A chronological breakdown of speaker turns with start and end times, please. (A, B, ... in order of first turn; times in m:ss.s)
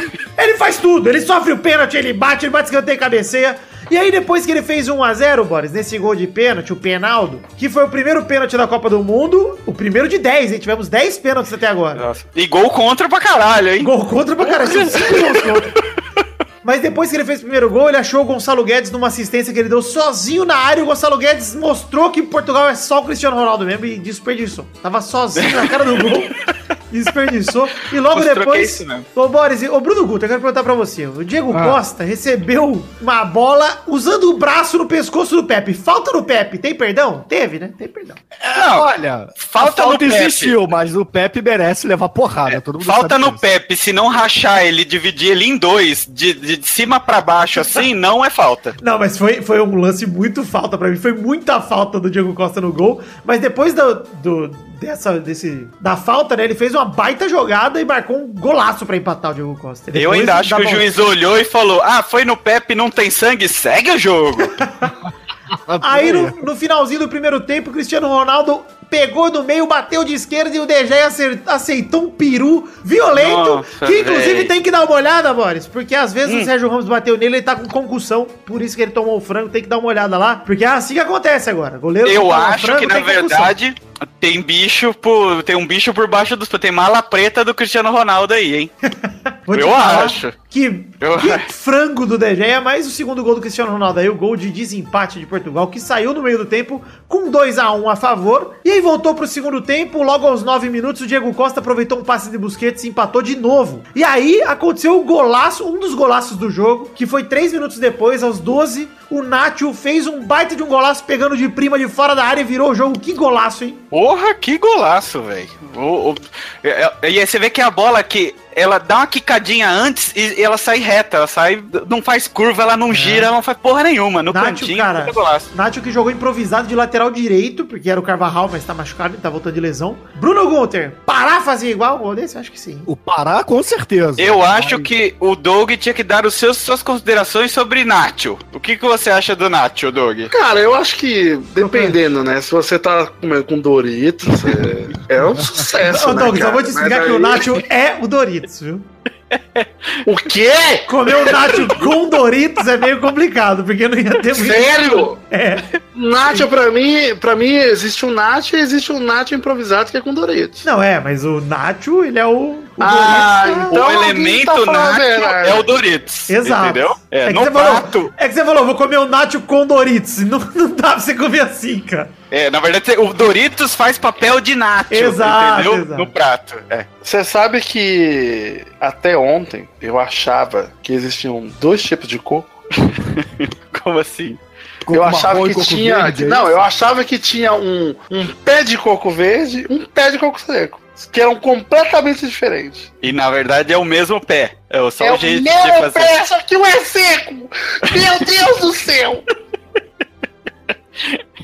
0:00.4-0:12.0 A
0:12.0-0:13.9 B
0:13.8-0:15.7 A
0:14.4-0:15.7 B
0:16.6-0:26.4 A
0:25.4-0:26.1 B
0:26.9-0:38.2 A
0:28.1-0:29.1 B
0:31.5-0:31.8 C
0:38.5-0:38.9 B
0:38.5-0:43.4 C
0:39.4-0:40.5 B
0:42.5-0:48.8 B
0:48.8-1:00.9 A
0:59.9-1:04.6 B
1:04.6-1:04.9 A
1:05.7-1:06.4 C
1:05.8-1:23.5 A
1:13.1-1:14.5 B
1:22.0-1:28.7 B
1:29.5-1:53.8 A
1:29.5-1:30.4 B
1:31.0-1:31.4 B
1:53.9-2:05.5 B
2:02.9-2:03.3 A
2:04.3-2:12.9 A
2:12.9-2:14.9 C
2:14.2-2:20.3 B
2:20.3-2:27.6 D
2:21.6-2:21.9 A
2:25.8-2:28.9 A
2:29.3-2:30.0 B
2:30.0-2:30.9 D
2:30.9-2:35.7 A
2:34.3-2:35.2 D
2:36.0-2:40.6 D
2:40.6-2:43.8 A
2:42.8-2:45.8 D
2:42.8-2:48.1 B
2:46.3-2:52.1 A
2:52.3-2:56.9 B
2:54.9-2:56.1 A
2:57.0-3:02.5 D
3:02.8-3:04.4 B
3:04.9-3:06.6 C
3:04.9-3:12.9 D
3:13.0-3:16.2 B
3:15.0-3:19.2 D